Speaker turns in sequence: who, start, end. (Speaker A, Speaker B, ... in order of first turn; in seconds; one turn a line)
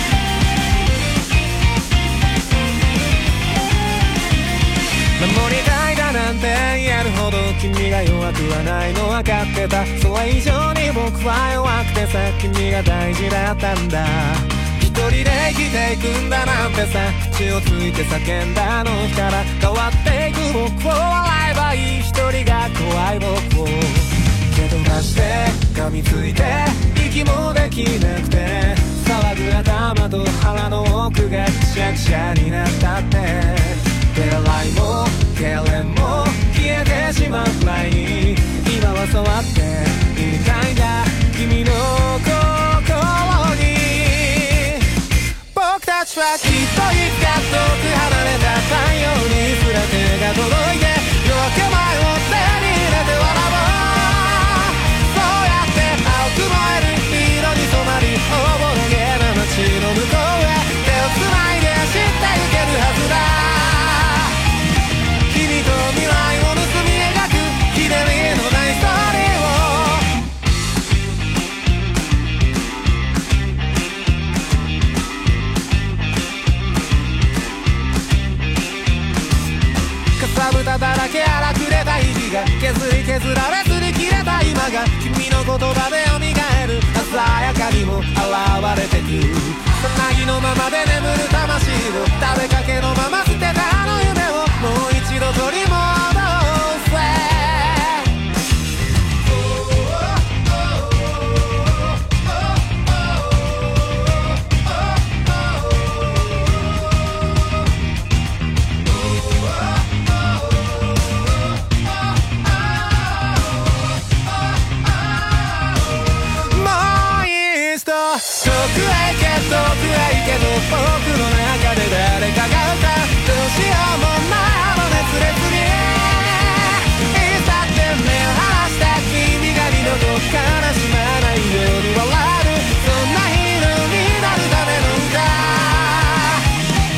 Speaker A: 5.2-44.9
Speaker A: 45.5-64.4
Speaker A: 65.3-70.2
Speaker A: 80.2-98.1
Speaker A: 116.3-136.5